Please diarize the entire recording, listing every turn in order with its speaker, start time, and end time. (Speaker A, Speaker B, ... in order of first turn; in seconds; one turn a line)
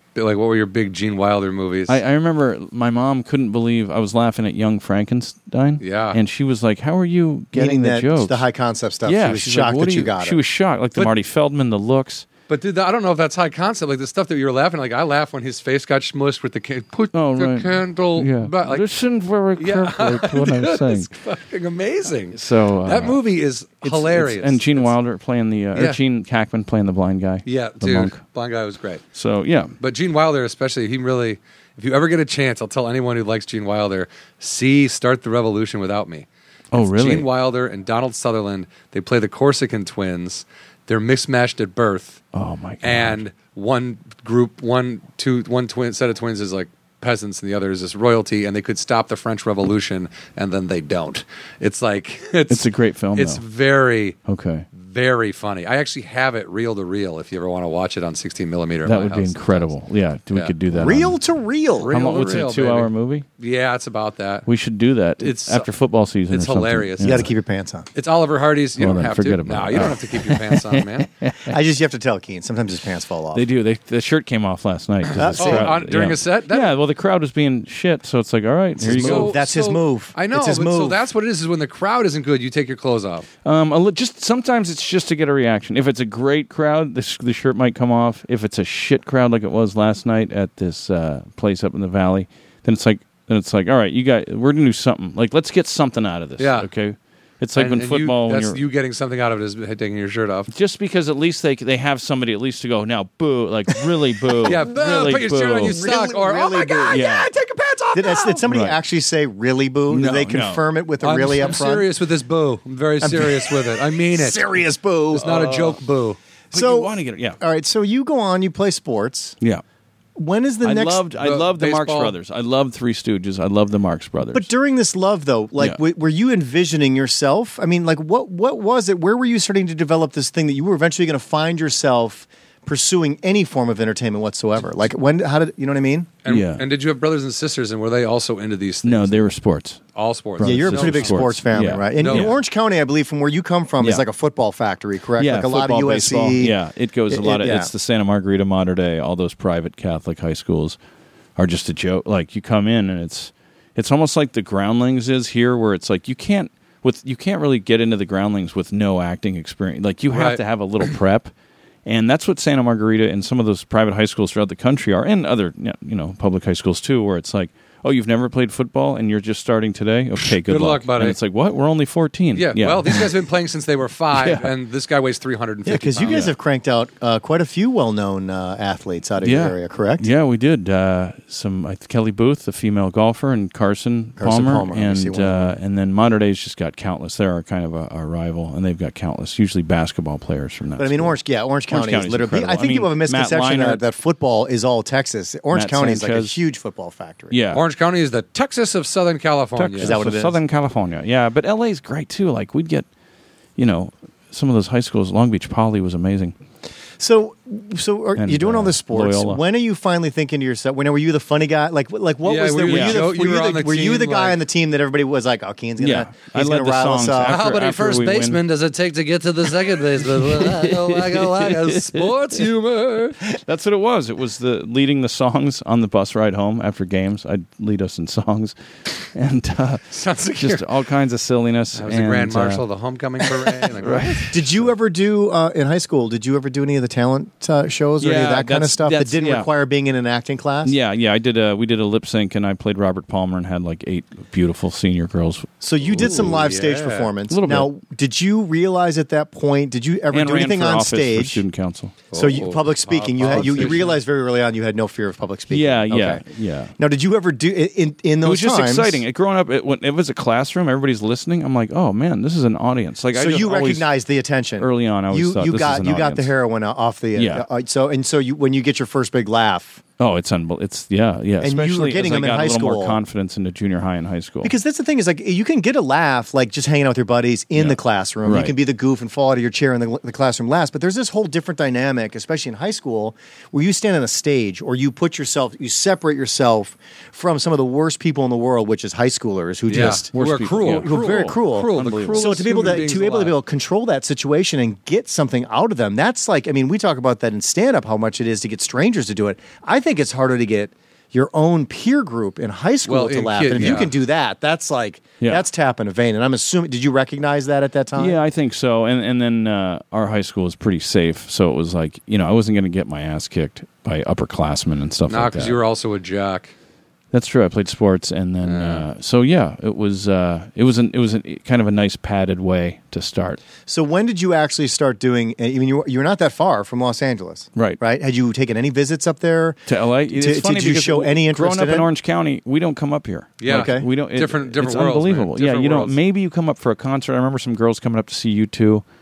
Speaker A: 0.1-2.0
Speaker B: 1.9-8.4
Speaker A: 5.8-6.2
Speaker C: 7.5-10.4
Speaker B: 9.0-12.3
Speaker A: 12.5-18.9
Speaker B: 17.1-21.1
Speaker A: 19.6-24.9
Speaker B: 22.3-23.2
Speaker B: 23.8-28.2
Speaker A: 25.7-26.0
Speaker A: 27.4-29.0
Speaker B: 29.1-29.7
Speaker A: 29.8-42.2
Speaker B: 36.7-37.3
Speaker B: 42.3-43.2
Speaker A: 42.8-54.2
Speaker B: 52.5-53.4
Speaker B: 54.2-54.6
Speaker A: 54.7-59.7
Speaker B: 58.9-61.2
Speaker C: 60.7-61.9
Speaker A: 61.8-64.5
Speaker B: 61.9-63.2
Speaker B: 64.5-67.3
Speaker A: 65.2-65.7
Speaker A: 66.3-67.3
Speaker C: 67.0-67.9
Speaker A: 67.9-71.1
Speaker B: 68.8-71.6
Speaker C: 71.5-73.4
Speaker B: 73.3-79.4
Speaker C: 75.2-75.8
Speaker A: 75.2-76.7
Speaker C: 78.8-81.0
Speaker A: 78.8-83.2
Speaker B: 83.4-98.6
Speaker A: 96.4-96.7
Speaker A: 97.5-100.5
Speaker B: 100.5-105.8
Speaker A: 104.4-108.5
Speaker C: 105.6-107.0
Speaker B: 106.9-107.3
Speaker C: 107.9-111.9
Speaker B: 108.5-108.8
Speaker B: 109.9-110.6
Speaker A: 111.0-114.5
Speaker C: 113.0-115.5
Speaker A: 115.1-116.2
Speaker B: 115.2-115.8
Speaker B: 116.5-117.4
Speaker C: 116.5-119.4
Speaker C: 120.2-121.0
Speaker B: 120.6-124.5
Speaker A: 121.2-122.1
Speaker C: 124.3-136.1
Speaker A: 136.2-139.3
Speaker B: 136.3-136.6
Speaker B: 138.8-139.8
Speaker A: 139.9-142.3
Speaker B: 140.4-142.4
Speaker C: 140.4-146.5
Speaker B: 143.8-144.0
Speaker B: 145.2-150.8
Speaker C: 147.1-147.7
Speaker B: 151.4-161.3
Speaker A: 160.1-160.9
Speaker B: 161.8-173.1
Speaker A: 170.4-171.2
Speaker A: 172.3-176.3
Speaker B: 174.1-174.5
Speaker C: 175.7-180.1
Speaker B: 176.0-176.3
Speaker B: 179.2-191.2
Speaker C: 184.2-185.5
Speaker C: 190.8-197.4
Speaker B: 191.7-193.8
Speaker B: 195.5-196.3
Speaker B: 197.3-197.6
Speaker A: 197.5-200.0
Speaker B: 199.6-202.9
Speaker C: 199.8-200.4
Speaker B: 203.6-206.4
Speaker C: 207.0-217.4
Speaker B: 208.2-209.4
Speaker A: 212.2-214.4
Speaker B: 212.7-213.1
Speaker B: 215.8-218.4
Speaker A: 217.2-223.2
Speaker B: 220.0-222.1
Speaker B: 223.2-232.6
Speaker A: 229.9-230.7
Speaker A: 231.7-234.4
Speaker B: 233.2-234.3
Speaker C: 234.3-240.7
Speaker B: 238.0-239.5
Speaker B: 240.6-246.3
Speaker C: 245.6-251.4
Speaker A: 245.9-247.1
Speaker B: 247.3-247.7
Speaker B: 250.1-252.0
Speaker A: 252.1-254.0
Speaker C: 252.1-256.2
Speaker B: 253.2-253.9
Speaker B: 255.5-256.7
Speaker C: 256.8-259.0
Speaker B: 258.2-263.9
Speaker C: 263.1-269.8
Speaker B: 264.6-266.3
Speaker B: 267.1-267.4
Speaker B: 270.0-274.5
Speaker C: 271.4-273.0
Speaker C: 274.4-290.1
Speaker B: 277.6-278.5
Speaker A: 289.7-293.4
Speaker B: 289.7-292.8
Speaker C: 290.6-308.2
Speaker A: 302.9-303.9
Speaker B: 303.6-303.9
Speaker B: 305.2-305.4
Speaker B: 307.9-315.6
Speaker A: 315.1-316.5
Speaker B: 317.1-323.4
Speaker A: 318.4-318.9
Speaker C: 323.6-331.9
Speaker B: 329.7-338.8
Speaker A: 333.4-336.0
Speaker C: 333.4-333.9